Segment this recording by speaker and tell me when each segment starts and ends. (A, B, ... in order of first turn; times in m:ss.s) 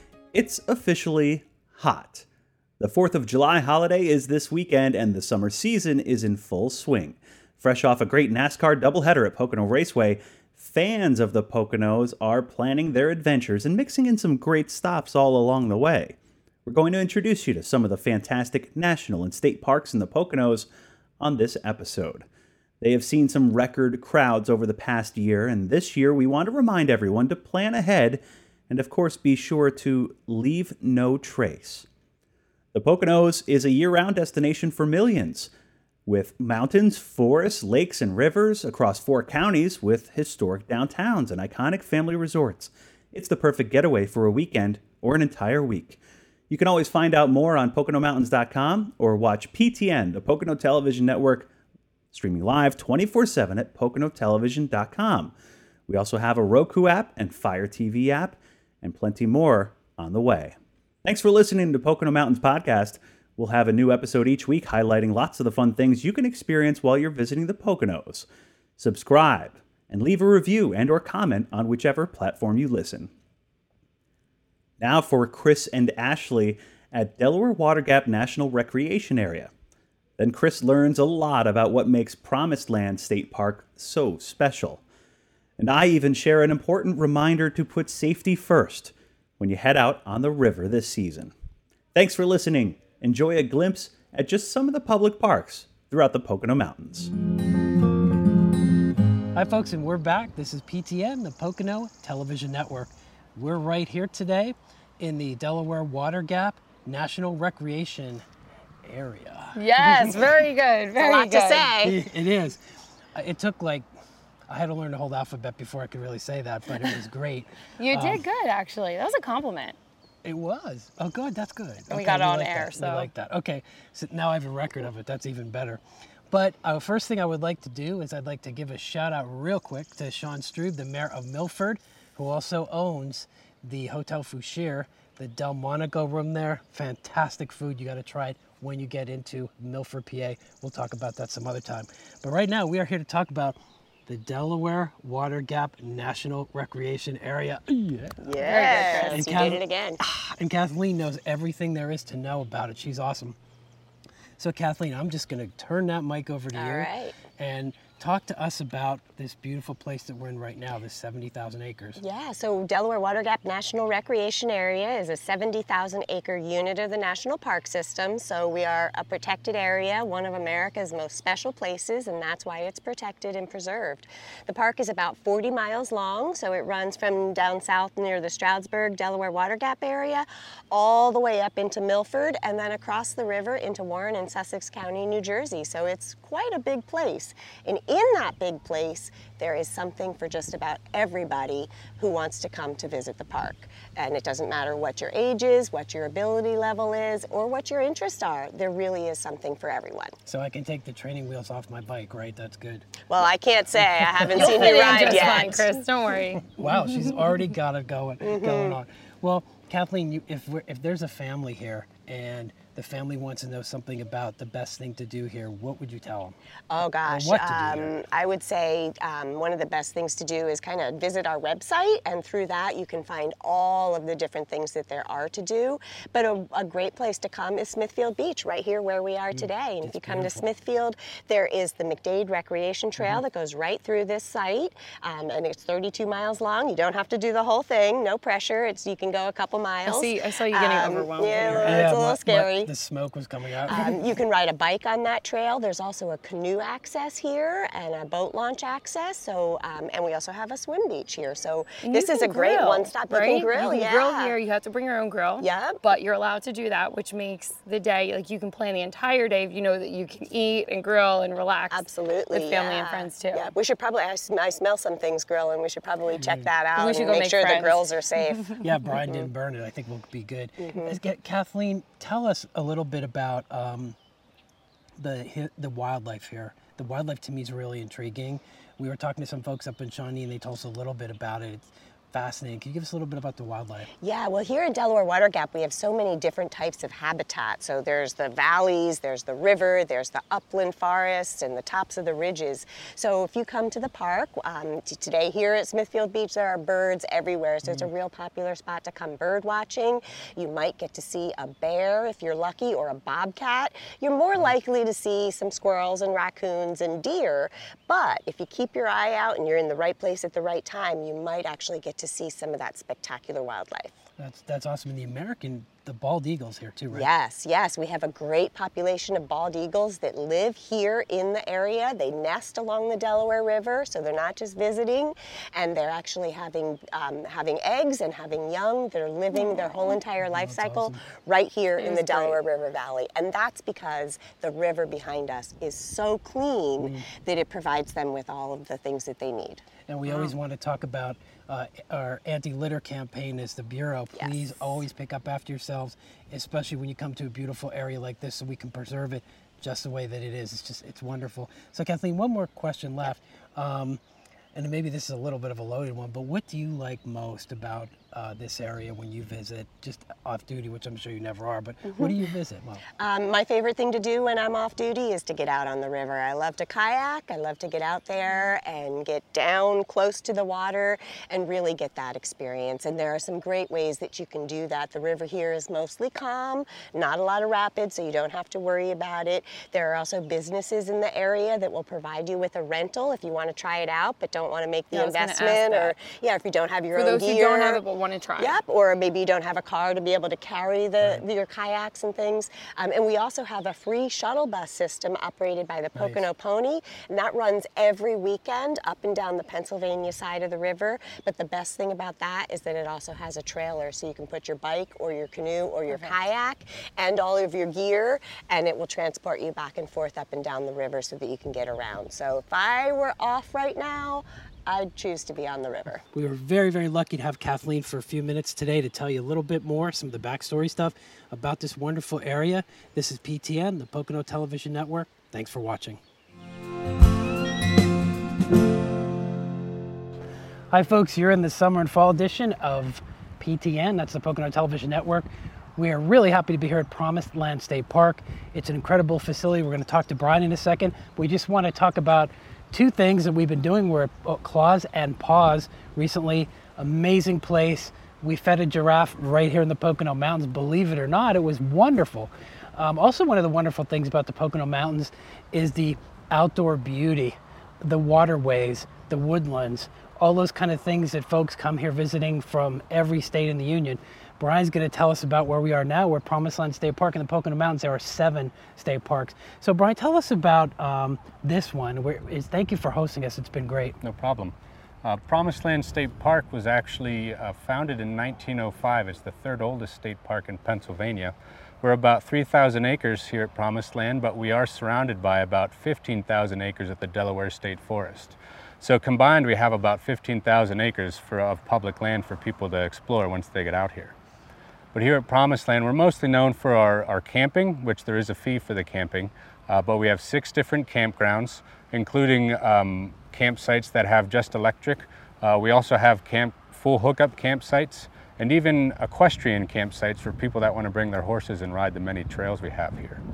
0:00.3-0:02.3 A
0:02.8-0:20.7 A
0:21.2-0:22.2 A
0:22.8-0:31.9 A
0:32.7-0:35.5 A
0:36.1-0:51.5 A
0:52.1-0:55.3 A
0:55.9-1:08.2 A
1:08.8-1:13.1 A
1:14.8-1:19.5 A
1:20.2-1:24.8 A
1:25.6-1:31.3 A
1:31.9-1:37.1 A
1:39.3-1:48.2 B
1:48.8-1:50.2 B
1:49.6-1:51.7 C
1:51.0-1:52.0 D
1:51.8-1:52.6 B
1:53.1-1:53.9 B
1:54.5-1:58.3 B
1:57.8-1:59.8 C
2:00.2-2:28.2 B
2:01.9-2:03.1 C
2:28.2-2:30.0 D
2:28.4-2:29.3 C
2:29.0-2:33.4 B
2:34.4-2:42.0 B
2:36.6-2:37.2 D
2:42.0-3:20.1 D
3:20.2-3:22.9 B
3:23.1-3:25.5 D
3:23.8-3:25.0 B
3:24.3-3:26.4 C
3:26.4-3:36.4 B
3:28.2-3:28.8 D
3:36.7-4:02.7 D
3:37.0-3:38.0 B
3:49.3-3:50.5 B
3:53.0-3:53.2 B
3:59.8-4:01.9 C
4:01.6-4:04.1 B
4:03.7-4:14.4 D
4:11.8-4:23.5 C
4:15.4-4:15.8 D
4:21.7-4:28.5 D
4:26.2-4:26.5 B
4:26.7-4:28.5 C
4:28.6-4:34.0 B
4:30.6-4:31.0 D
4:35.0-4:43.9 B
4:44.0-5:14.0 D
4:57.6-4:57.9 B
5:14.2-5:17.1 B
5:16.9-5:39.6 D
5:30.0-5:31.1 B
5:31.8-5:32.1 C
5:36.8-5:37.1 B
5:39.9-5:54.0 B
5:44.1-5:44.7 D
5:54.6-6:02.8 B
6:03.0-6:27.8 D
6:24.9-6:26.0 C
6:26.9-6:28.6 C
6:28.4-6:56.0 D
6:35.9-6:36.2 B
6:56.1-7:06.0 B
7:10.7-7:54.0 B
7:54.0-8:14.2 E
8:14.9-8:33.2 E